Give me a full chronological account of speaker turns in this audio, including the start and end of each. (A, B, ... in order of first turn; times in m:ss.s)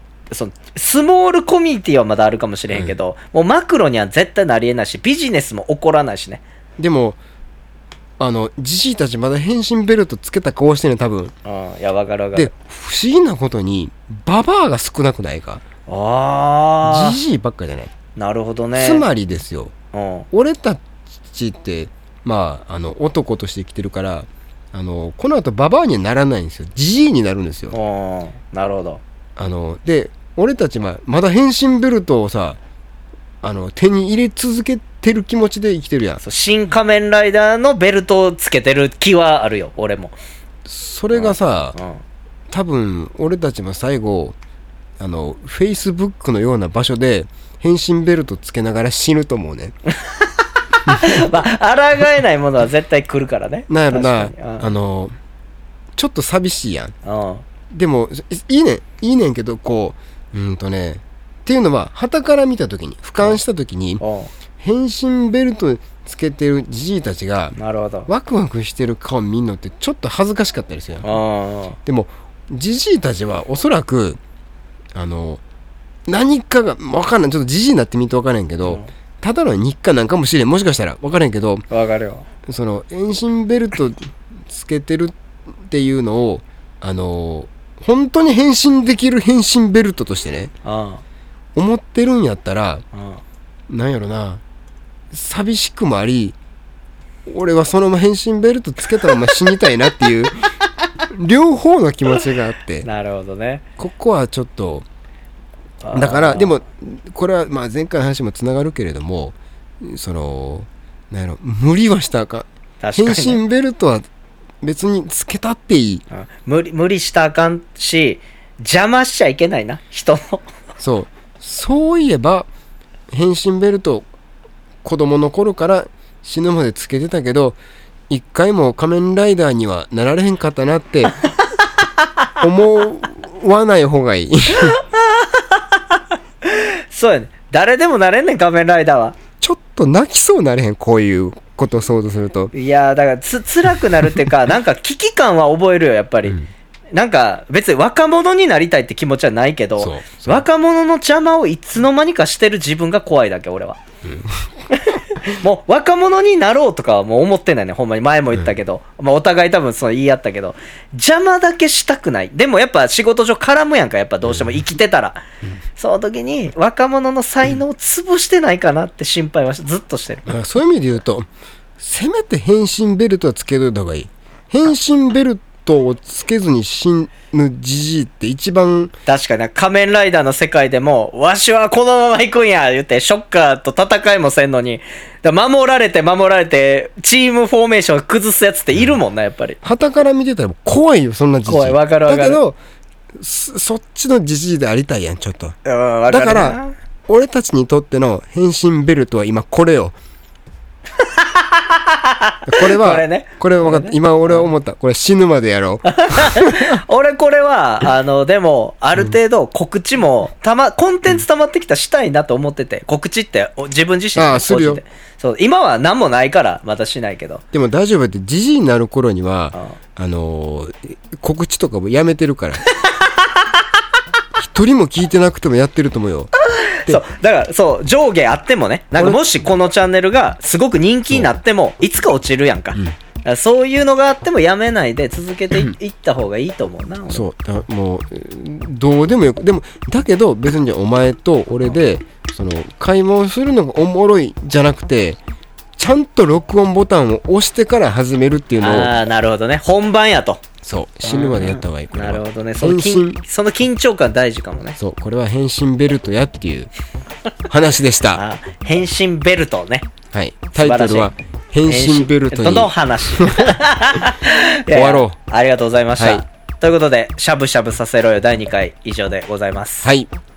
0:00.3-0:06.4 A
0:06.8-0:07.2 B
0:08.2-0:11.3 B
0:11.4-0:12.5 A
0:12.4-0:15.6 B
0:15.9-0:17.2 A
0:16.8-0:17.9 B
0:18.2-0:19.1 A
0:18.8-0:19.7 B
0:19.9-0:20.3 A
0:20.3-0:27.8 B
0:27.7-0:29.0 A
0:29.4-0:32.6 B
0:33.4-0:36.2 B
0:36.2-0:40.2 A
0:40.6-0:41.8 B
0:41.1-0:42.0 A
0:42.5-0:44.4 B
0:45.0-0:49.8 B
0:50.0-0:54.7 A
0:50.9-0:51.2 B
0:53.7-0:55.1 B
0:56.0-0:56.9 B
0:57.0-0:57.4 A
0:57.7-1:04.0 B
1:04.0-1:04.3 A
1:04.6-1:11.1 B
1:07.6-1:08.1 A
1:11.0-1:11.8 A
1:11.8-1:14.2 B
1:15.0-1:15.4 B
1:16.1-1:21.6 B
1:18.6-1:18.9 A
1:21.7-1:22.3 A
1:22.5-1:30.5 B
1:30.6-1:31.0 A
1:31.6-1:32.8 B
1:32.9-1:33.2 A
1:33.7-1:34.4 B
1:35.1-1:36.4 B
1:37.3-1:40.4 B
1:41.1-1:42.9 B
1:42.8-1:43.6 A
1:43.8-1:44.9 B
1:45.8-1:46.6 A
1:45.9-1:54.0 B
1:52.8-1:53.4 A
1:54.6-1:56.0 B
1:56.1-2:00.5 A
2:00.8-2:02.5 B
2:03.1-2:04.1 B
2:04.8-2:07.6 B
2:08.1-2:11.2 B
2:12.4-2:14.8 B
2:14.6-2:15.8 A
2:16.4-2:19.2 A
2:19.4-2:22.5 B
2:22.5-2:26.4 A
2:26.9-2:33.8 A
2:29.8-2:30.5 B
2:34.0-2:34.4 B
2:34.7-2:45.2 A
2:44.3-2:44.6 B
2:45.8-2:50.3 A
2:50.3-2:51.3 B
2:51.8-2:58.9 B
2:59.1-3:09.6 A
3:09.6-3:12.6 B
3:11.4-3:12.4 A
3:13.2-3:15.6 B
3:15.6-3:16.7 A
3:16.1-3:20.0 B
3:21.0-3:24.5 A
3:22.5-3:26.8 B
3:25.9-3:37.4 A
3:34.2-3:34.8 B
3:37.5-3:42.6 B
3:42.7-3:43.5 A
3:44.4-3:46.3 B
3:46.5-3:57.2 A
3:49.0-3:49.3 B
3:57.1-4:05.2 B
4:05.8-4:08.9 B
4:08.6-4:10.4 A
4:10.6-4:13.2 B
4:11.0-4:14.8 A
4:14.8-4:16.7 B
4:17.5-4:18.2 B
4:18.1-4:19.9 A
4:20.1-4:24.0 B
4:20.6-4:21.1 A
4:21.7-4:29.9 A
4:24.7-4:25.2 B
4:26.0-4:26.2 B
4:29.8-4:30.1 B